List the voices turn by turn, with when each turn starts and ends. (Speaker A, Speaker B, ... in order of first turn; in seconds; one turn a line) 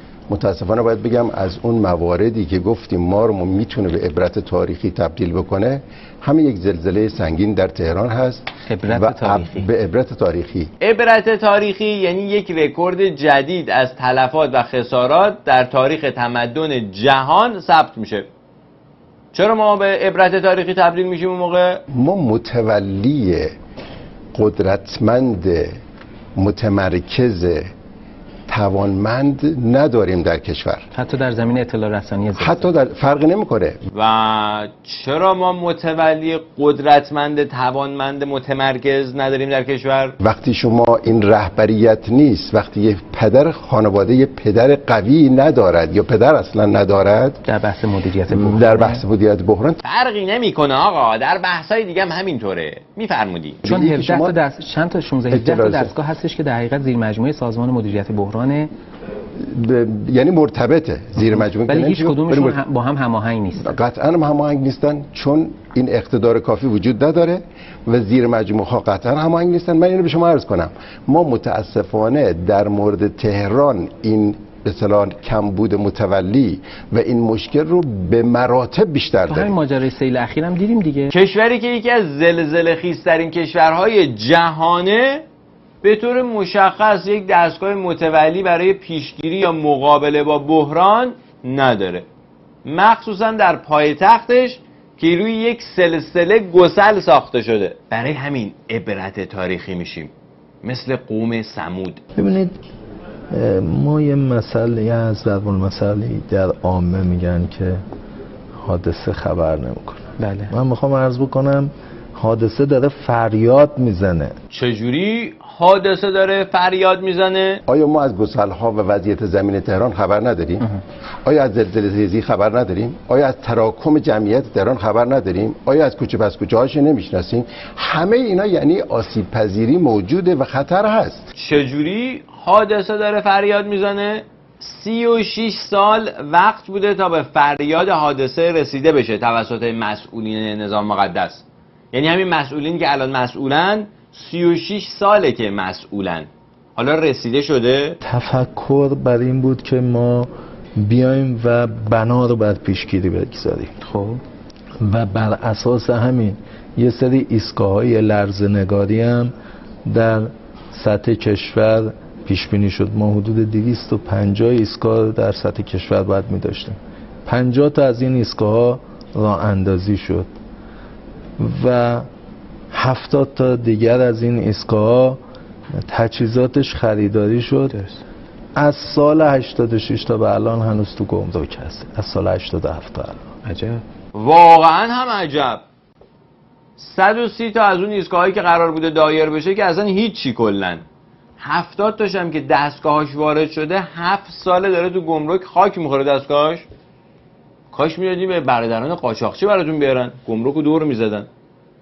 Speaker A: 0.3-10.7
Speaker B: 8.7-9.7
Speaker C: 10.8-18.3
Speaker C: 19.3-21.8
Speaker A: 21.9-23.6
Speaker A: 24.4-25.8
Speaker A: 26.4-27.7
Speaker A: 28.5-30.9
Speaker B: 30.9-32.7
Speaker A: 32.4-33.8
Speaker C: 33.9-40.1
Speaker A: 40.2-47.4
Speaker B: 47.5-49.0
Speaker A: 48.3-49.8
Speaker C: 49.8-53.6
Speaker B: 53.6-58.7
Speaker A: 53.7-54.4
Speaker A: 55.3-55.9
Speaker A: 59.4-62.6
Speaker B: 61.4-63.7
Speaker A: 63.6-79.5
Speaker B: 79.3-81.1
Speaker C: 81.1-85.2
Speaker C: 85.8-92.1
Speaker C: 92.7-102.0
Speaker D: 102.2-102.6
Speaker D: 103.3-107.8
Speaker D: 108.6-114.4
Speaker B: 110.2-110.5
Speaker C: 114.5-117.6
Speaker A: 117.7-120.6
Speaker A: 121.3-131.3
Speaker C: 131.3-148.0
Speaker D: 148.0-153.7
Speaker B: 153.8-154.2
Speaker D: 154.8-159.3
Speaker D: 159.9-170.3
Speaker D: 171.4-172.1
Speaker D: 172.7-175.2
Speaker D: 175.8-177.8
Speaker B: 177.7-178.0
Speaker D: 178.6-183.3
Speaker B: 183.4-183.8
Speaker C: 184.1-185.6
Speaker C: 186.8-190.8
Speaker C: 191.4-196.7
Speaker C: 197.7-201.3